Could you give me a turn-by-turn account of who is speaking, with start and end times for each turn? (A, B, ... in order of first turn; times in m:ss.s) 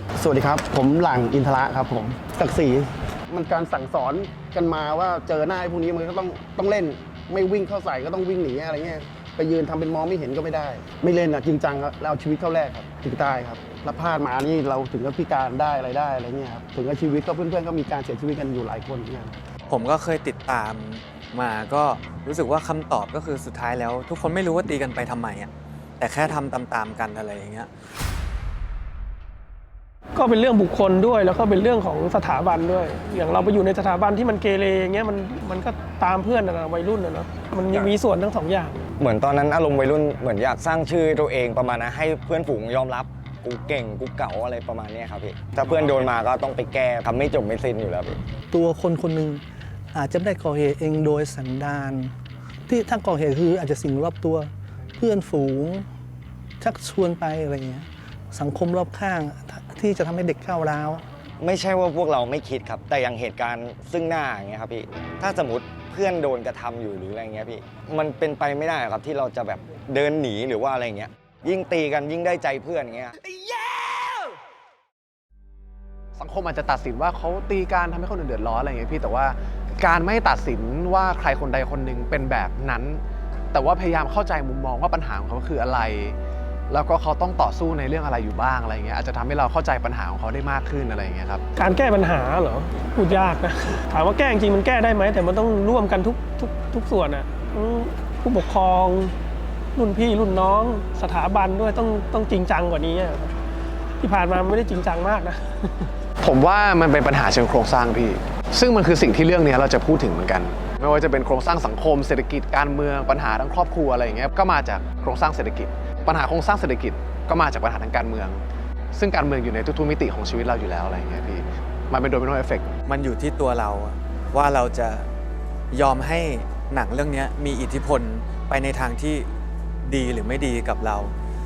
0:00.2-0:19.3 A
0:19.7-0:27.7 B
0:30.1-0:38.8 C
0:39.0-0:48.2 D
0:48.5-0:49.4 E
0:49.9-0:52.1 E
0:52.7-0:55.8 E
0:56.6-1:01.0 E
1:01.4-1:13.2 D
1:16.2-1:23.0 F
1:23.5-1:26.2 F
1:26.7-1:31.4 F
1:31.6-1:39.1 C
1:39.7-1:43.3 C
1:44.0-1:45.9 C
1:46.2-1:58.4 F
1:58.9-2:02.7 F
2:02.8-2:05.1 B
2:05.7-2:09.3 B
2:09.8-2:11.1 B